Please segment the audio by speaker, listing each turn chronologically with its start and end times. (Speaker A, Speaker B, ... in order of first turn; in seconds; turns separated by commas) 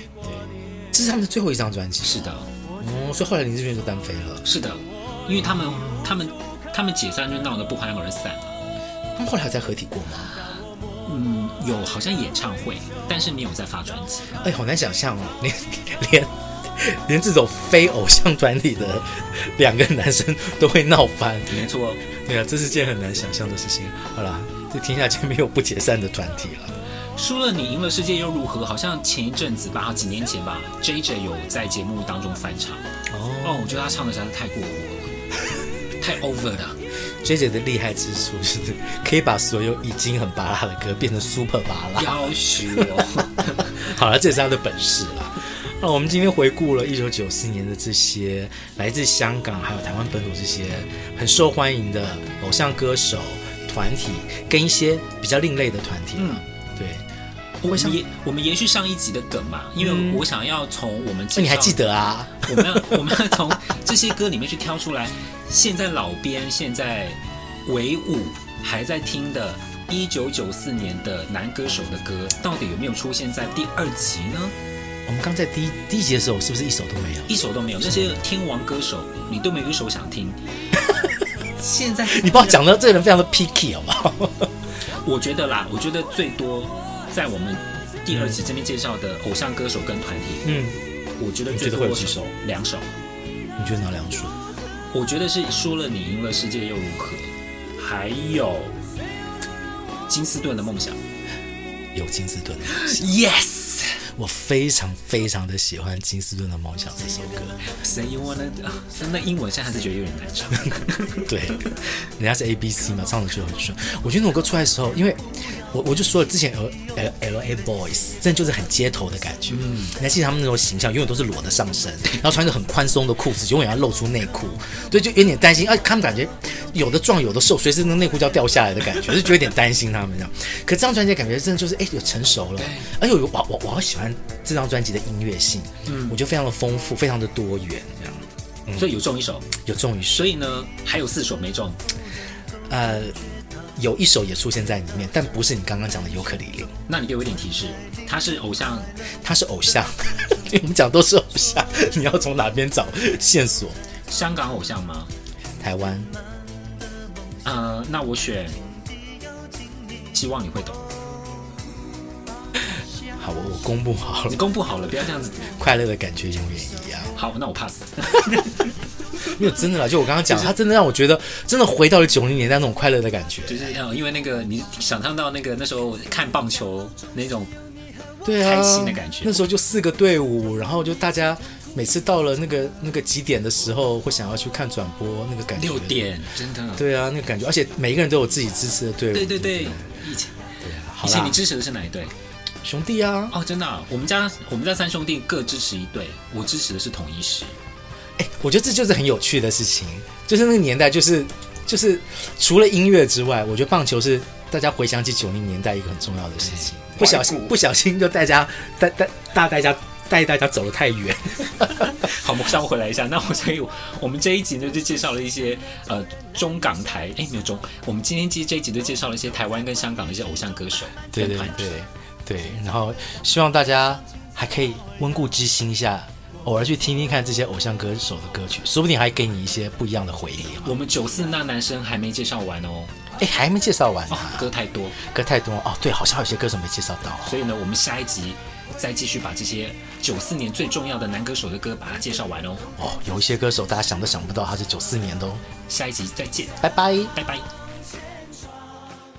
Speaker A: 0.2-4.5, Speaker B: 2.0-2.5, Speaker B: 4.4-8.6, Speaker A: 5.4-6.1, Speaker A: 9.2-10.4, Speaker B: 11.1-14.4, Speaker A: 14.4-26.8, Speaker B: 21.5-22.0, Speaker B: 27.2-32.9, Speaker A: 33.1-33.8, Speaker B: 33.4-35.2, Speaker B: 36.0-36.8, Speaker A: 37.2-57.0, Speaker B: 42.0-43.7, Speaker B: 56.2-56.4, Speaker B: 57.6-61.9, Speaker A: 57.7-58.0, Speaker A: 59.8-60.2, Speaker A: 61.4-63.3, Speaker B: 62.4-74.6, Speaker A: 75.1-78.2, Speaker B: 77.3-80.4, Speaker B: 81.6-82.7, Speaker A: 82.1-84.5, Speaker B: 85.0-90.5, Speaker A: 88.1-88.4, Speaker A: 90.4-90.8, Speaker B: 91.2-92.9, Speaker A: 91.5-92.3, Speaker A: 93.6-94.4, Speaker B: 94.9-98.8, Speaker B: 100.1-101.0, Speaker A: 102.0-103.2, Speaker B: 102.7-104.0, Speaker A: 104.0-107.6, Speaker B: 107.6-111.7, Speaker A: 111.2-139.0, Speaker B: 119.5-119.9, Speaker B: 132.6-132.9, Speaker B: 135.9-136.2, Speaker B: 138.8-139.5, Speaker A: 139.6-140.3, Speaker B: 140.1-141.8, Speaker A: 142.7-143.2, Speaker A: 143.8-146.7, Speaker B: 146.9-148.9, Speaker A: 149.2-153.8, Speaker B: 154.1-155.1, Speaker A: 155.6-156.1, Speaker B: 157.4-158.6, Speaker B: 160.1-160.9, Speaker A: 163.2-164.4, Speaker B: 164.3-165.5, Speaker A: 165.5-167.1, Speaker B: 167.2-168.8, Speaker A: 169.2-173.8, Speaker B: 170.2-170.5, Speaker B: 173.5-177.5, Speaker A: 178.2-186.1, Speaker B: 178.4-179.4, Speaker B: 185.5-186.8, Speaker A: 186.8-189.9, Speaker B: 189.1-190.4, Speaker A: 190.6-191.4, Speaker B: 191.0-192.1, Speaker A: 192.6-193.3, Speaker B: 193.3-197.6, Speaker A: 198.2-212.1, Speaker B: 206.4-207.6, Speaker B: 211.9-221.7, Speaker A: 221.1-230.8, Speaker B: 230.6-232.9, Speaker A: 233.2-237.4, Speaker B: 234.1-235.0, Speaker B: 237.3-242.7, Speaker A: 242.8-245.4, Speaker B: 245.7-247.5, Speaker A: 246.6-247.1